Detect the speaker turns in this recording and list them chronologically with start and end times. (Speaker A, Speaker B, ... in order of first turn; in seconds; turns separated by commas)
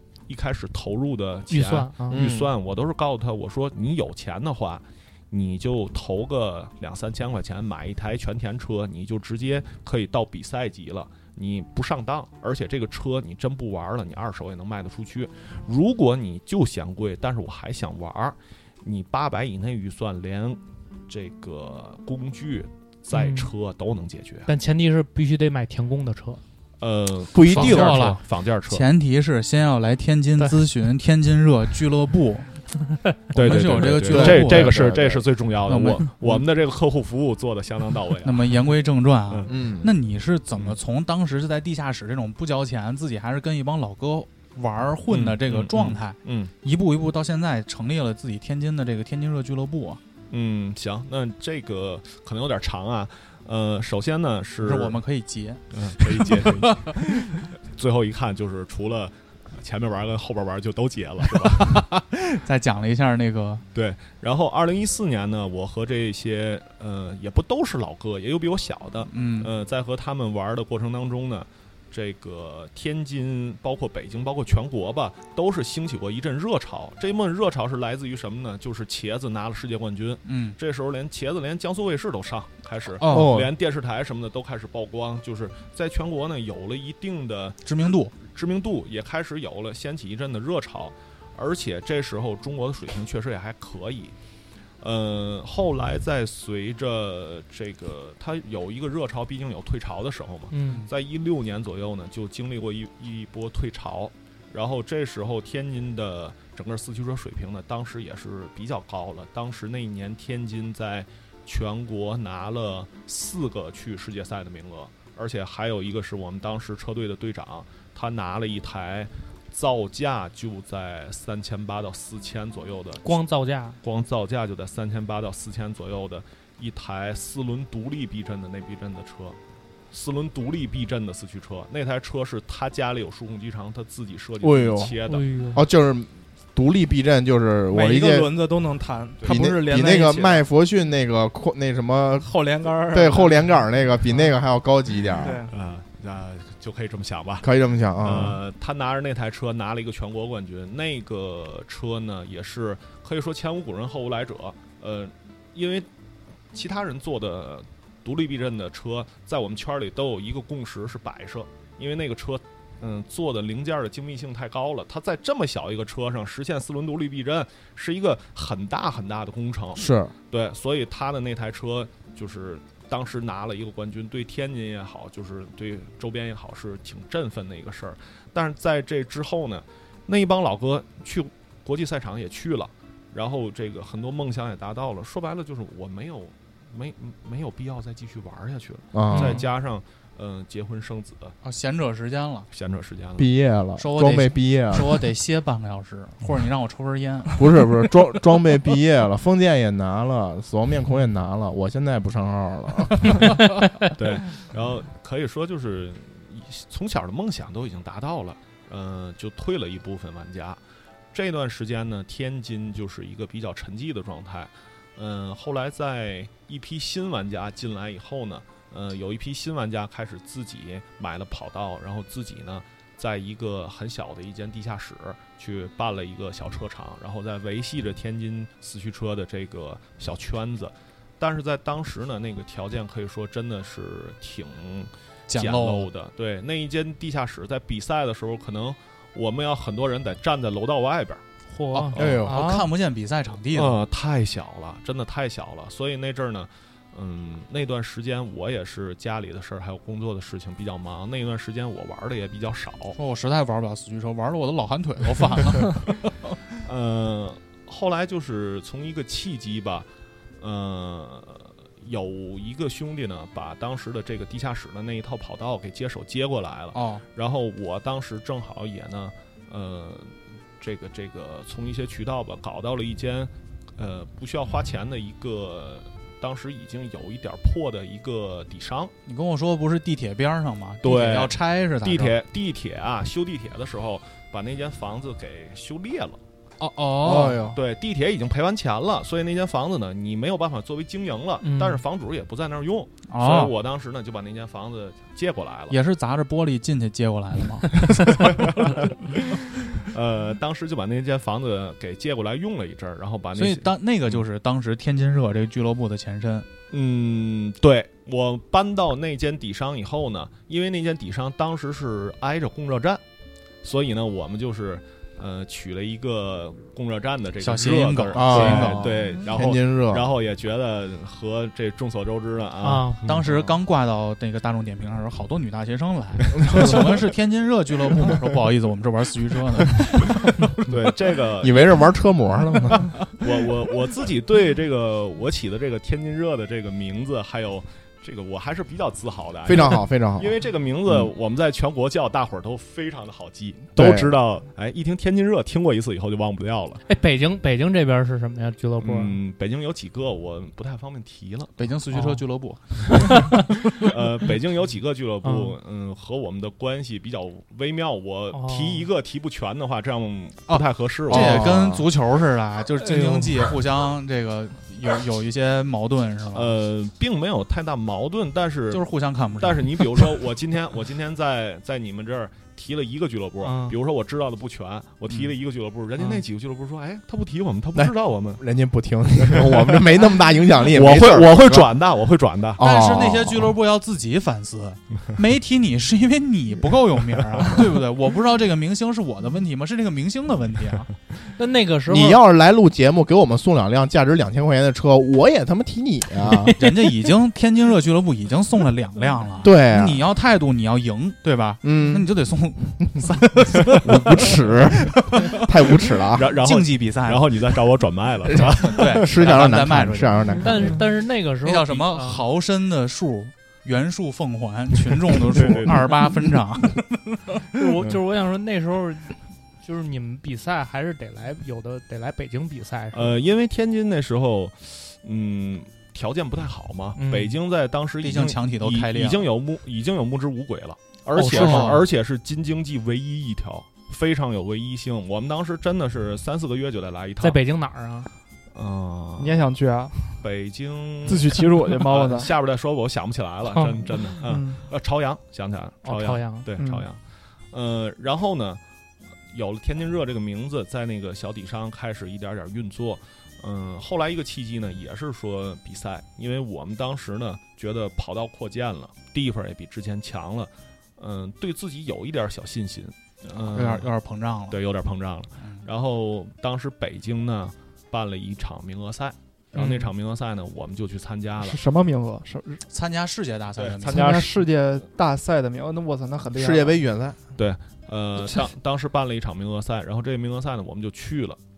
Speaker A: 0.3-24.5, Speaker B: 1.5-2.2, Speaker C: 2.1-2.5, Speaker B: 23.1-23.5, Speaker B: 24.5-26.4, Speaker A: 26.8-28.9, Speaker C: 27.3-28.1, Speaker D: 27.5-32.5, Speaker A: 33.3-38.6, Speaker D: 33.3-34.8, Speaker C: 34.0-35.2, Speaker D: 35.7-36.1, Speaker D: 38.2-50.0, Speaker A: 39.3-39.5, Speaker C: 39.5-39.9, Speaker A: 45.1-46.5, Speaker A: 50.3-55.0, Speaker D: 54.6-56.9, Speaker A: 55.7-61.9, Speaker D: 61.5-63.6, Speaker A: 63.7-94.1, Speaker D: 69.1-69.5, Speaker D: 80.2-80.6, Speaker D: 83.0-83.4, Speaker C: 83.0-83.5, Speaker D: 87.6-88.1, Speaker A: 94.8-123.2, Speaker B: 100.5-100.9, Speaker B: 123.0-123.8, Speaker A: 123.8-129.4, Speaker A: 129.9-135.3, Speaker C: 134.4-135.0, Speaker B: 135.0-135.6, Speaker C: 135.5-138.3, Speaker E: 137.7-140.4, Speaker C: 139.2-142.3, Speaker E: 142.2-143.6, Speaker C: 142.9-145.4, Speaker E: 145.2-145.5, Speaker A: 145.5-147.5, Speaker C: 147.4-148.4, Speaker A: 148.0-155.9, Speaker A: 156.5-191.3, Speaker C: 169.7-170.1, Speaker C: 188.9-189.4, Speaker B: 189.1-189.4, Speaker D: 191.4-192.5, Speaker A: 192.5-193.3, Speaker C: 193.2-195.0, Speaker D: 193.8-197.4, Speaker C: 197.3-203.3, Speaker A: 203.9-210.6, Speaker A: 211.1-241.2, Speaker D: 235.3-235.9, Speaker B: 241.5-242.2, Speaker D: 241.7-243.8, Speaker A: 241.9-242.2, Speaker C: 242.0-242.4, Speaker E: 242.3-242.7, Speaker A: 243.5-253.0, Speaker D: 252.9-256.1, Speaker A: 256.6-259.9, Speaker A: 260.4-278.9, Speaker D: 266.7-267.0, Speaker D: 279.1-282.1, Speaker A: 280.8-286.2, Speaker D: 286.6-287.5, Speaker C: 287.0-287.6, Speaker A: 287.5-295.8, Speaker B: 291.4-291.8, Speaker D: 293.1-293.5, Speaker D: 295.7-298.6, Speaker A: 298.0-304.2, Speaker D: 303.4-306.5, Speaker A: 306.7-313.0, Speaker A: 313.6-323.3, Speaker D: 317.4-318.9, Speaker C: 318.1-320.1, Speaker B: 322.6-323.1, Speaker D: 323.0-330.1, Speaker C: 326.4-326.9, Speaker A: 330.6-331.8, Speaker C: 331.4-332.9, Speaker A: 333.1-346.8, Speaker C: 339.4-340.3, Speaker C: 343.7-344.1, Speaker B: 346.9-349.2, Speaker A: 348.8-351.6, Speaker D: 351.6-353.2, Speaker B: 351.9-352.2, Speaker B: 352.9-353.4, Speaker A: 353.7-361.7, Speaker B: 355.2-355.6, Speaker B: 358.3-358.9, Speaker D: 360.5-366.5, Speaker C: 361.1-361.9, Speaker A: 366.3-368.9, Speaker D: 368.7-370.1, Speaker A: 369.4-378.4, Speaker B: 373.4-373.8, Speaker C: 377.7-381.7, Speaker A: 379.2-379.8, Speaker A: 380.7-382.6, Speaker C: 382.6-383.5, Speaker D: 382.6-390.9, Speaker B: 391.4-392.2, Speaker C: 391.9-396.6, Speaker D: 396.6-405.4, Speaker C: 399.4-400.0, Speaker C: 401.6-402.1, Speaker C: 403.7-406.3, Speaker A: 406.1-409.2, Speaker D: 406.4-407.3, Speaker C: 408.3-410.8, Speaker D: 408.4-410.3, Speaker B: 410.4-412.2, Speaker D: 411.4-417.2, Speaker A: 415.2-416.2, Speaker B: 417.5-423.2, Speaker A: 422.9-437.4, Speaker B: 427.0-427.4, Speaker D: 428.0-429.2, Speaker B: 431.1-431.8, Speaker D: 431.2-431.8, Speaker B: 437.2-438.1, Speaker A: 438.5-439.5, Speaker E: 439.2-440.1, Speaker A: 440.2-448.6, Speaker E: 441.0-442.3, Speaker B: 443.6-443.9, Speaker E: 444.2-444.6, Speaker B: 445.8-446.5, Speaker E: 446.6-446.9, Speaker A: 449.3-463.9, Speaker D: 463.5-464.6, Speaker A: 464.5-471.6, Speaker D: 465.4-465.6, Speaker B: 469.5-469.9, Speaker E: 471.4-472.6, Speaker D: 472.7-474.2, Speaker A: 473.6-474.3, Speaker E: 473.8-476.8, Speaker C: 476.3-477.2, Speaker A: 477.4-481.4